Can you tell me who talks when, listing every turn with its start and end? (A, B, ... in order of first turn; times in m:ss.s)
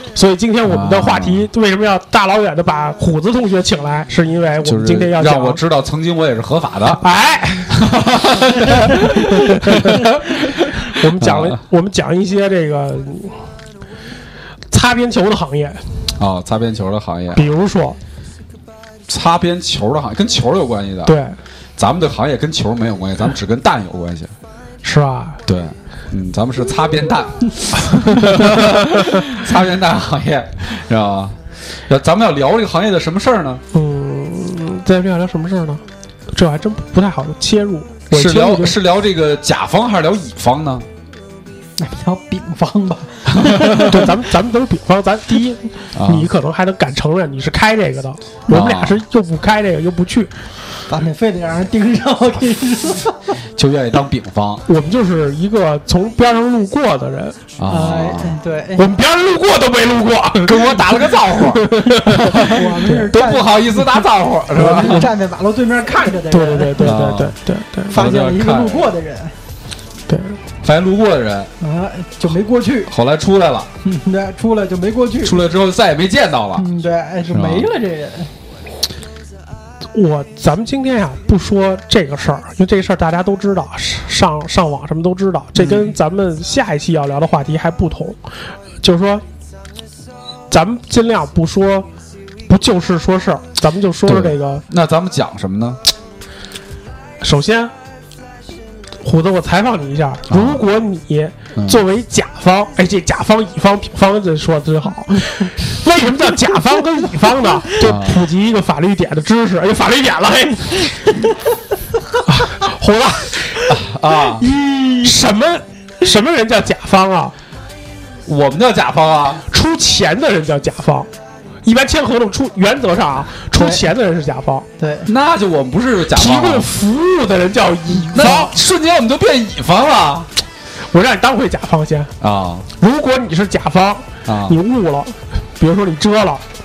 0:00.2-0:05.6 A
0:00.6-0:01.5 B
0:04.6-0:07.0 B
0:07.0-0:07.8 A
0:07.7-0:11.6 B
0:09.2-0:10.2 A
0:10.8-0:13.4 A
0:14.7-0:15.8 A
0:16.2-0:17.5 B
0:17.3-0:18.0 A
0:19.1-0:21.2 B
0:21.0-0:21.4 A
0:21.8-0:24.3 B
0:24.8-0:25.4 A
0:25.5-0:33.6 B
0:33.7-0:38.8 A
0:38.1-0:40.9 B
0:41.8-0:44.0 C
0:43.4-0:43.9 B
0:43.8-0:50.3 A
0:46.0-0:46.3 B
0:48.5-0:49.0 B
0:50.9-0:53.2 C
0:53.6-0:54.6 B
0:54.7-0:57.4 A
0:57.6-0:58.4 B
0:57.7-0:58.9 C
0:58.8-1:03.1 A
1:00.4-1:05.1 B
1:02.4-1:04.0 C
1:04.5-1:07.0 C
1:06.3-1:07.9 A
1:06.8-1:07.4 B
1:07.9-1:09.4 C
1:07.9-1:08.9 B
1:10.1-1:10.4 A
1:10.6-1:11.5 B
1:11.6-1:12.9 C
1:12.9-1:13.7 B
1:13.8-1:15.5 C
1:15.2-1:16.7 B
1:16.6-1:18.3 C
1:17.3-1:17.7 B
1:19.9-1:28.2 A
1:28.8-1:29.2 A
1:30.5-1:31.9 A
1:32.5-1:34.6 A
1:34.0-1:35.8 B
1:37.2-1:37.7 A
1:39.0-1:51.1 A
1:40.3-1:40.6 B
1:41.6-1:41.8 B
1:47.8-1:48.2 B
1:52.3-1:53.6 A
1:53.7-1:54.4 B
1:54.5-1:55.0 C
1:55.0-1:57.4 A
1:58.2-1:59.4 B
1:59.5-2:01.1 A
2:01.6-2:04.7 A
2:03.5-2:03.9 C
2:04.8-2:05.1 C
2:05.1-2:06.7 B
2:06.2-2:08.5 A
2:08.1-2:10.3 B
2:10.9-2:12.1 A
2:12.2-2:12.7 B
2:12.8-2:16.4 A
2:14.2-2:14.6 B